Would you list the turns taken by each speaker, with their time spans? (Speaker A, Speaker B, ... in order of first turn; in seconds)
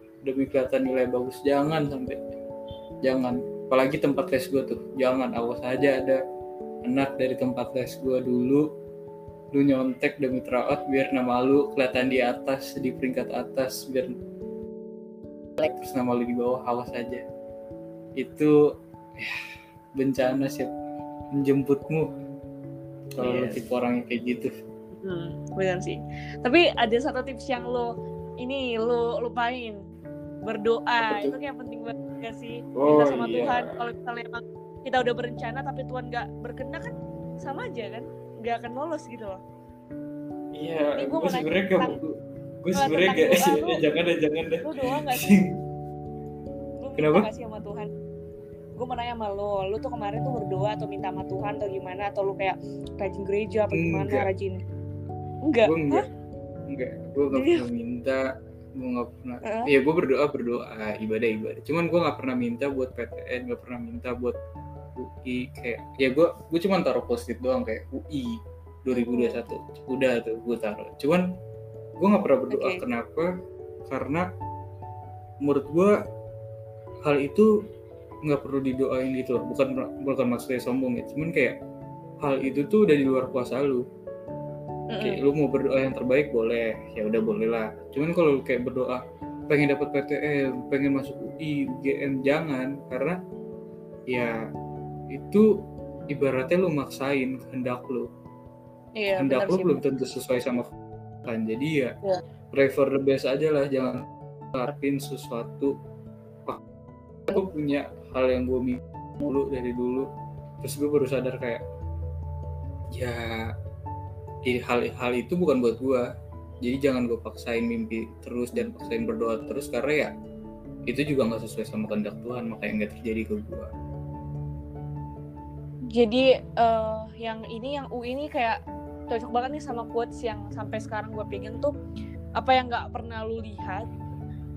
Speaker A: 0.2-2.2, 3.0-6.2, 6.8-8.7, 9.5-14.1, 15.6-17.2, 18.2-18.5, 20.0-20.7, 21.3-22.1, 23.2-24.5, 31.1-31.4, 32.8-33.8, 40.5-45.5, 47.0-47.3, 53.7-54.3, 55.6-56.0, 56.7-58.2, 58.8-64.4, 65.0-71.3, 72.0-73.3, 73.9-74.2, 75.4-75.9, 77.0-77.5, 78.2-81.6, 82.2-83.8, 85.0-93.2, 94.1-94.4, 95.1-95.5, 96.1-98.1, 99.2-100.7, 101.2-102.0, 102.5-104.0, 104.5-105.7, 107.3-110.1, 110.6-111.6, 112.9-113.4, 114.5-116.0, 116.6-120.1, 120.9-123.7
Speaker B: 23.2-23.6, 25.0-27.9, 28.4-29.8, 30.4-39.4, 41.0-42.0, 42.8-43.8, 44.6-45.4, 46.8-47.9, 48.8-54.6, 55.4-56.0, 57.3-57.6, 59.4-59.7, 68.9-69.4, 72.5-72.8, 84.9-85.2, 99.0-99.8, 125.9-128.6, 129.1-131.7, 132.4-133.9